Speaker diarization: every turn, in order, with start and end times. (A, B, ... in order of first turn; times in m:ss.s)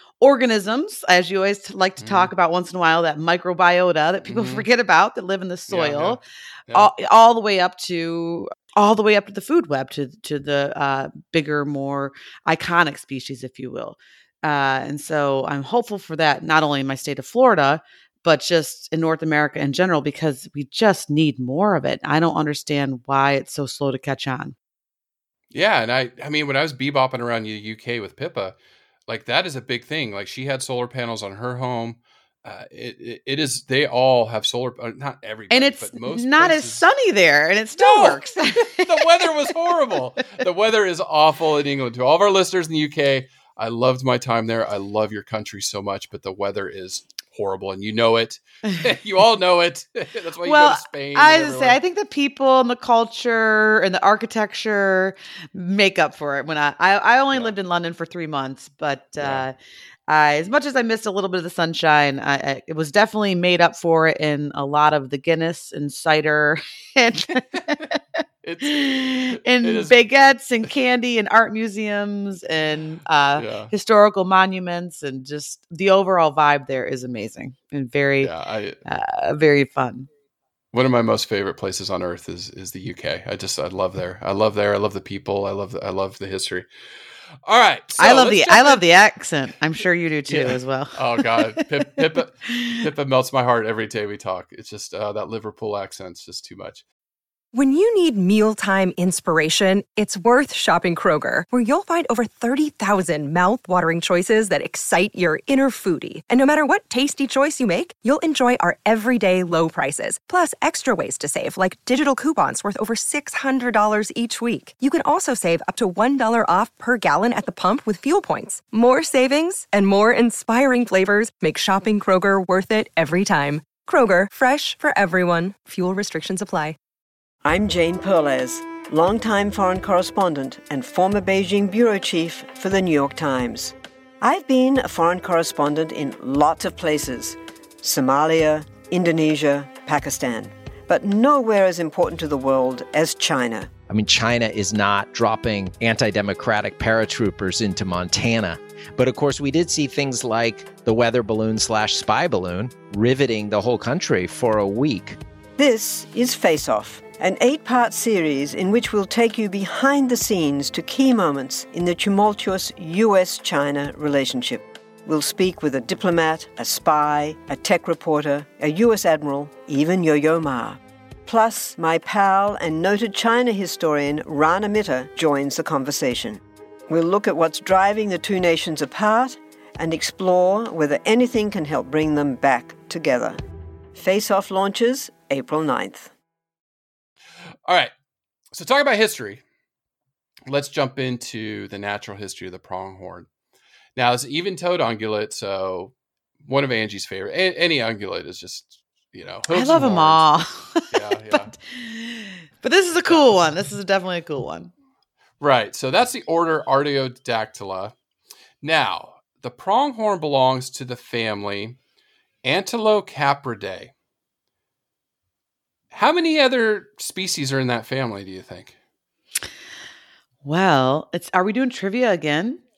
0:00.2-0:06.2 A
0:02.0-0:02.3 B
0:04.2-0:04.7 B
0:05.7-0:06.9 B
0:06.7-0:24.6 A
0:25.5-0:28.6 B
0:29.1-0:36.8 B
0:35.5-0:40.2 A
0:37.8-0:51.8 B
0:50.4-0:59.5 A
0:59.2-0:59.4 B
1:00.1-1:08.0 A
1:08.4-1:10.0 B
1:08.6-1:18.3 A
1:13.4-1:13.7 B
1:18.2-1:18.8 B
1:18.8-1:20.1 A
1:20.7-1:26.7 B
1:27.4-1:28.8 B
1:28.0-1:32.8 A
1:30.3-1:36.8 B
1:37.5-2:06.8 C
2:07.4-2:23.7 D
2:23.9-2:35.2 E
2:35.6-3:03.4 D
3:03.9-3:06.1 D
3:08.5-3:09.4 B
3:10.5-3:13.3 B
3:14.0-3:15.9 B
3:16.4-3:20.4 B
3:19.5-3:24.7 A
3:20.9-3:21.5 B
3:25.4-3:27.9 B
3:28.6-3:31.8 B
3:32.4-3:33.9 B
3:35.9-3:38.7 B
3:40.4-3:42.6 A